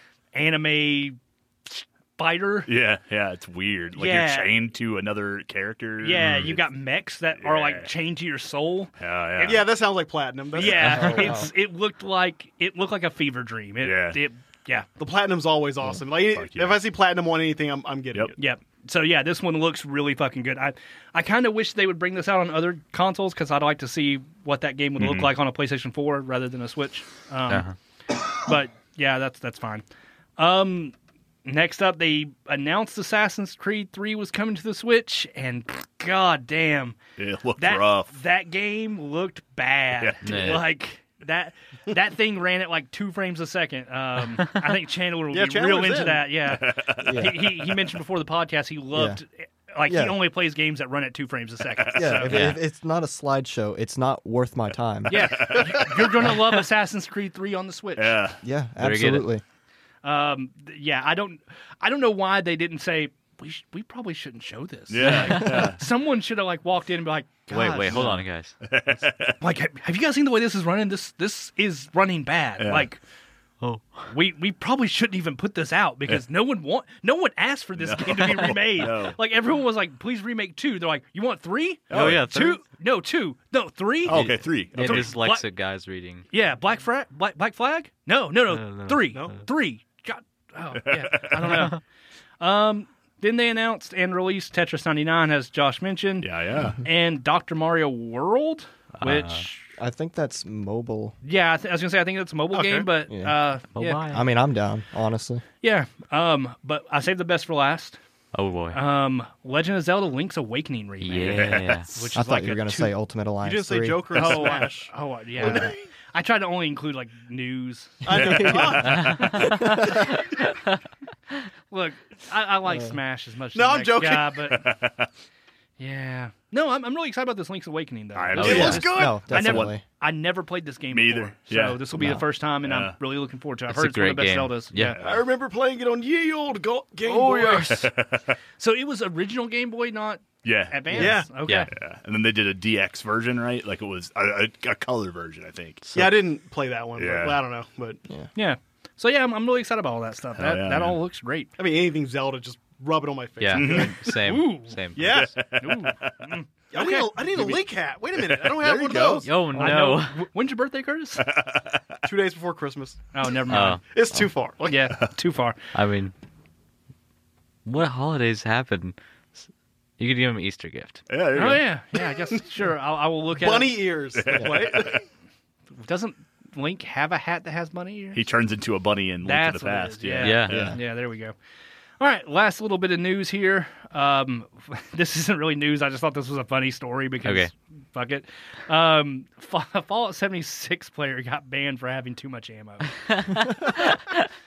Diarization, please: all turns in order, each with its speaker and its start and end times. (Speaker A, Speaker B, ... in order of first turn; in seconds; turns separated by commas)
Speaker A: 0.3-2.7, Speaker B: 2.7-6.7, Speaker A: 4.0-4.6, Speaker A: 6.0-9.6, Speaker B: 7.4-7.9, Speaker B: 9.0-9.6, Speaker C: 9.4-11.3, Speaker A: 10.6-14.9, Speaker B: 10.6-11.3, Speaker D: 11.0-11.5, Speaker B: 13.8-14.2, Speaker C: 15.0-18.4, Speaker B: 16.3-16.8, Speaker A: 18.4-27.7, Speaker B: 25.0-25.4, Speaker E: 27.5-27.7, Speaker A: 28.4-29.8, Speaker A: 30.4-37.0, Speaker B: 37.2-38.2, Speaker A: 37.6-52.4, Speaker B: 40.0-40.6, Speaker E: 40.2-40.6, Speaker C: 45.3-46.3, Speaker B: 46.5-47.9, Speaker D: 47.0-47.4, Speaker D: 48.9-49.2, Speaker D: 49.9-50.2, Speaker B: 51.8-52.4, Speaker D: 51.9-55.5, Speaker E: 52.3-52.6, Speaker A: 55.1-58.2, Speaker B: 55.2-56.4, Speaker B: 58.0-58.4, Speaker D: 58.4-59.4, Speaker E: 58.8-59.3, Speaker A: 60.0-68.2, Speaker B: 64.9-65.8, Speaker E: 65.0-65.4, Speaker E: 67.5-68.5, Speaker B: 67.9-69.4, Speaker A: 69.4-73.0, Speaker B: 72.6-72.9, Speaker E: 73.6-74.1, Speaker A: 74.1-85.5, Speaker B: 77.8-79.2, Speaker B: 81.9-82.3, Speaker E: 81.9-82.6, Speaker B: 84.0-85.2, Speaker E: 84.1-86.3, Speaker A: 86.3-91.8, Speaker E: 88.5-89.2, Speaker B: 90.8-91.6, Speaker A: 92.4-99.7, Speaker B: 96.2-96.8, Speaker E: 99.0-99.5, Speaker D: 99.8-101.2, Speaker A: 101.2-104.2, Speaker C: 102.5-102.9, Speaker D: 103.1-103.4, Speaker E: 103.8-104.2, Speaker D: 104.1-105.4, Speaker A: 105.6-108.0, Speaker E: 108.3-108.8, Speaker A: 108.7-112.9, Speaker E: 111.0-111.9, Speaker B: 111.3-111.7, Speaker D: 112.1-114.5, Speaker C: 113.4-115.8, Speaker A: 114.1-119.9, Speaker C: 118.0-119.7, Speaker D: 118.1-120.1, Speaker B: 118.1-119.1, Speaker E: 118.9-119.8, Speaker A: 121.7-124.7, Speaker C: 123.5-124.4, Speaker B: 124.5-125.1, Speaker A: 125.8-135.0, Speaker B: 128.2-129.7, Speaker E: 128.4-128.9, Speaker C: 128.4-129.3, Speaker D: 128.5-129.8, Speaker B: 130.9-131.9, Speaker D: 132.0-132.2, Speaker B: 132.6-133.0, Speaker E: 133.7-135.0, Speaker B: 134.9-135.2, Speaker C: 135.0-137.8, Speaker B: 137.1-138.4, Speaker A: 138.6-141.7, Speaker B: 140.4-141.1, Speaker C: 140.9-141.3, Speaker B: 141.7-146.0, Speaker C: 145.9-148.0, Speaker B: 147.0-147.4, Speaker A: 148.3-151.5, Speaker B: 150.4-151.0, Speaker C: 151.6-153.9, Speaker E: 153.4-155.3, Speaker B: 153.5-153.9, Speaker A: 154.2-154.8, Speaker C: 154.9-155.3, Speaker B: 155.0-156.2, Speaker A: 155.6-157.4, Speaker C: 156.7-159.3, Speaker B: 158.2-159.7, Speaker E: 159.2-160.3, Speaker A: 159.5-161.3, Speaker B: 161.2-162.1, Speaker C: 162.1-163.0, Speaker A: 163.1-163.8, Speaker E: 163.5-163.8, Speaker C: 163.8-164.8, Speaker A: 164.7-165.6, Speaker E: 165.7-166.1, Speaker E: 167.7-169.0, Speaker E: 170.0-171.0, Speaker B: 171.1-171.7, Speaker A: 171.3-173.8, Speaker C: 173.4-175.0, Speaker B: 174.2-175.0, Speaker A: 175.8-178.2, Speaker B: 178.1-180.8, Speaker A: 179.2-181.3, Speaker E: 180.2-180.5, Speaker D: 180.5-180.8, Speaker A: 182.0-192.9, Speaker E: 187.2-187.5, Speaker E: 193.1-194.2